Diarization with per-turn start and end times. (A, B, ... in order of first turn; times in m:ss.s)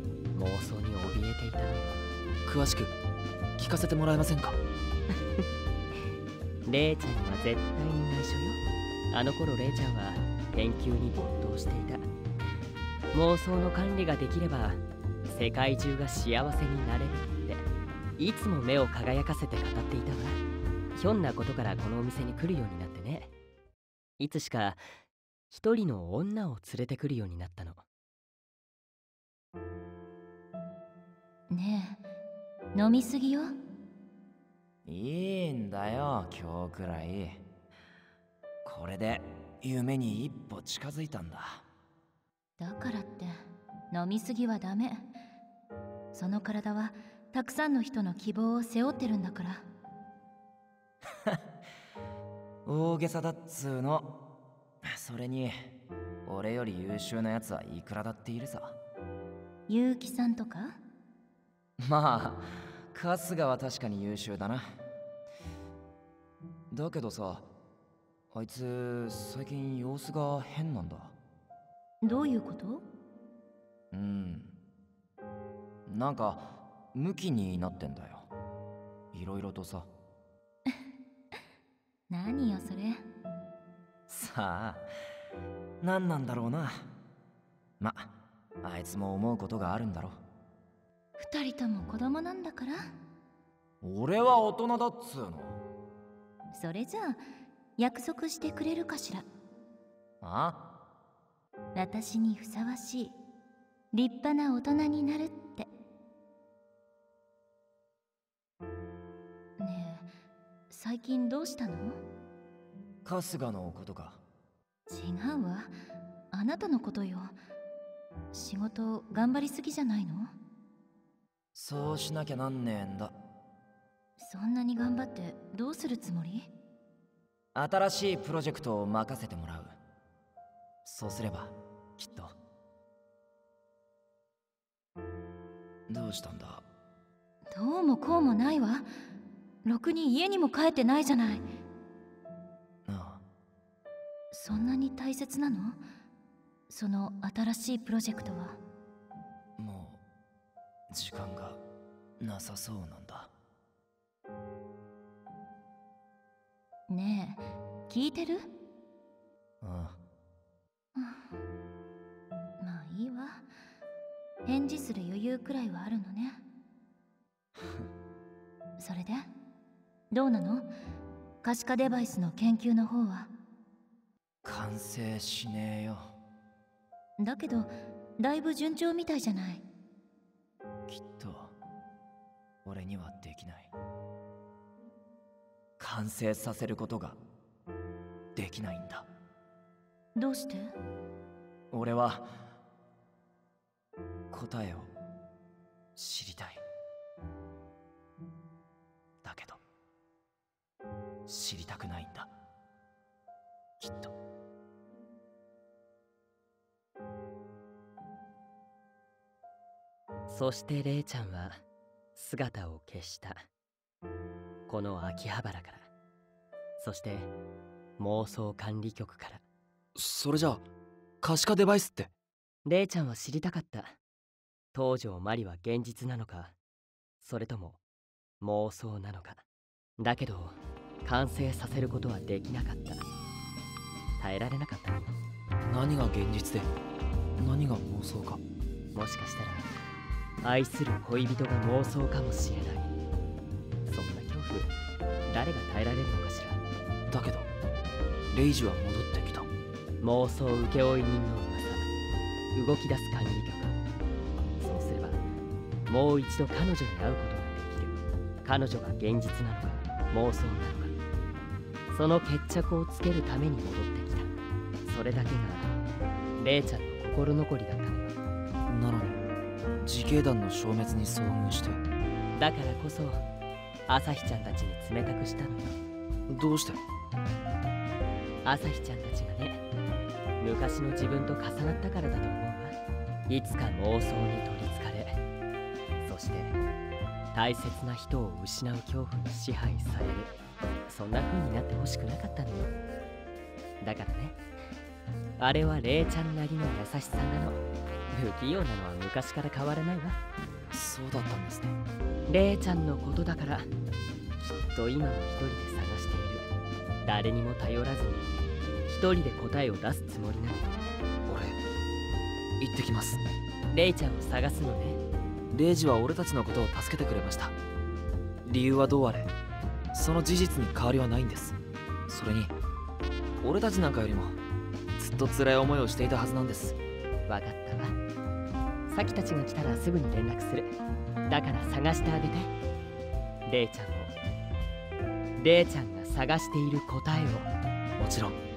0:00.3-0:02.0 A
0:02.4-0:03.0 B
0:03.6-0:04.6 B
0:06.7-0:12.1 A
0:13.1-0:17.7 A
0:18.2-0:20.4 A
0:21.0-0:23.3 A
0:24.2-0:24.8 A
0:25.5-0:27.8 A
0:31.5-0:32.0 C
0:32.7-0:33.6 C
0:34.8-0:37.4 D
0:38.6-0:41.6 D
0:42.6-0:45.1 C
0:46.1-0:49.7 C
0:52.6-0:54.1 D
0:54.8-0:55.7 D
0:56.2-0:58.8 D
0:59.7-1:00.8 C
1:01.8-1:04.8 D
1:06.7-1:07.5 D
1:08.3-1:11.2 D
1:12.0-1:12.8 C
1:13.9-1:14.6 D
1:15.9-1:18.3 D
1:19.1-1:19.9 D
1:22.1-1:23.0 C
1:24.1-1:24.9 D
1:25.8-1:26.9 D
1:27.8-1:30.2 D
1:31.2-1:32.9 C
1:33.8-1:35.6 D
1:36.5-1:37.2 C
1:37.8-1:39.2 C
1:40.2-1:40.7 D
1:41.8-1:43.2 C
1:43.9-1:45.7 C
1:49.6-1:50.1 C
1:50.7-1:52.0 C
1:53.0-1:54.2 D
1:54.9-1:55.7 C
1:56.3-1:57.4 C
1:58.3-2:00.3 C
2:01.5-2:03.1 D
2:04.2-2:06.5 C
2:07.5-2:09.8 D
2:10.8-2:12.4 D
2:15.9-2:16.6 D
2:17.5-2:18.9 C
2:19.6-2:21.5 C
2:22.9-2:23.2 D
2:24.3-2:25.8 C
2:26.7-2:28.6 C
2:29.6-2:30.0 D
2:30.9-2:31.6 D
2:32.2-2:33.3 D
2:36.9-2:38.5 C
2:39.6-2:40.0 D
2:41.0-2:41.3 C
2:42.6-2:43.5 C
2:44.4-2:46.4 C
2:47.6-2:47.9 D
2:48.8-2:49.3 C
2:50.1-2:50.7 C
2:51.4-2:53.3 C
2:54.4-2:56.1 D
2:57.2-2:59.6 C
3:00.9-3:01.6 D
3:02.6-3:03.7 D
3:05.8-3:07.2 D
3:08.4-3:09.1 D
3:10.2-3:10.7 C
3:11.7-3:12.3 D
3:14.3-3:14.9 D
3:16.0-3:16.6 D
3:19.2-3:19.6 D
3:21.3-3:22.3 D
3:23.8-3:24.1 D
3:30.3-3:31.6 A
3:32.2-3:33.5 A
3:34.7-3:35.9 A
3:36.8-3:37.3 A
3:38.0-3:39.4 A
3:40.0-3:40.6 B
3:41.2-3:42.1 B
3:42.6-3:44.0 A
3:44.7-3:46.6 A
3:47.2-3:47.8 A
3:48.4-3:49.4 A
3:50.0-3:53.0 A
3:54.2-3:55.1 A
3:55.7-3:56.7 B
3:57.4-3:58.4 B
3:59.0-3:59.7 A
4:00.4-4:02.9 A
4:03.9-4:04.7 A
4:05.3-4:06.6 A
4:07.1-4:07.5 B
4:08.3-4:09.5 B
4:10.0-4:11.9 A
4:12.5-4:13.8 A
4:14.6-4:15.2 A
4:15.9-4:20.9 A
4:21.9-4:24.3 A
4:24.8-4:25.7 A
4:26.4-4:28.2 A
4:28.7-4:29.2 B
4:29.8-4:31.8 B
4:32.4-4:33.2 A
4:33.9-4:35.8 A
4:36.3-4:36.8 B
4:38.4-4:39.6 A
4:40.4-4:42.8 A
4:43.3-4:45.2 A
4:46.0-4:46.6 A
4:47.3-4:50.3 A
4:50.9-4:52.7 A
4:53.8-4:54.4 A
4:55.4-5:00.2 A
5:00.7-5:01.7 B
5:02.3-5:03.7 A
5:04.4-5:06.5 A
5:07.0-5:10.8 A
5:11.3-5:11.6 B
5:12.6-5:13.2 B
5:13.7-5:15.0 A
5:15.5-5:17.6 B
5:18.4-5:19.3 B
5:19.9-5:22.6 B
5:23.4-5:24.4 B
5:25.0-5:26.8 B
5:27.3-5:28.0 A
5:28.9-5:30.8 A
5:31.3-5:32.5 A
5:33.5-5:34.1 A
5:35.4-5:37.5 A
5:38.0-5:38.4 B